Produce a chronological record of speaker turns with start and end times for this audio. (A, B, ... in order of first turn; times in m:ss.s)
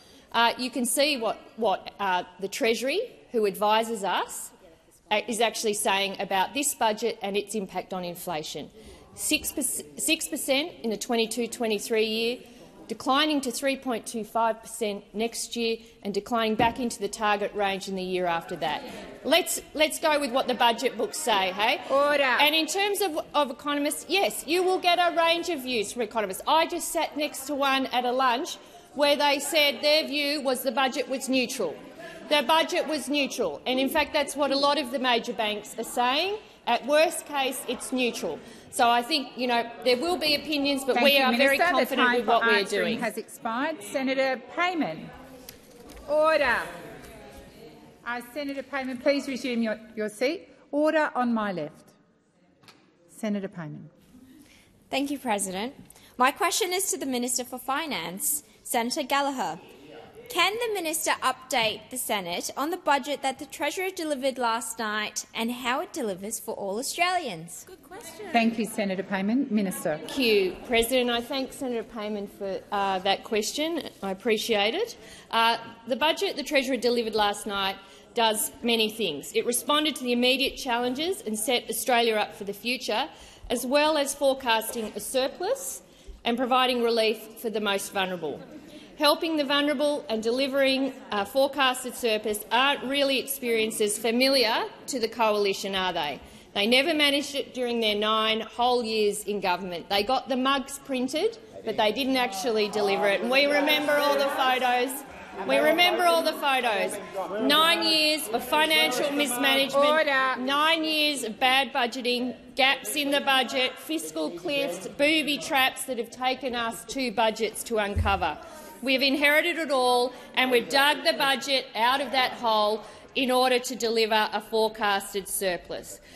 0:00.3-0:04.5 A
0:05.1-0:21.8 A
0:21.9-0:22.5 B
0:22.4-0:43.1 A
0:40.9-0:45.1 B
0:46.1-0:46.7 B
0:48.0-0:51.9 B
0:53.1-0:53.9 B
0:54.9-0:59.6 C
1:00.3-1:08.2 C
1:08.3-1:10.0 B
1:10.1-1:28.4 A
1:29.0-2:06.0 A
1:49.7-1:50.4 B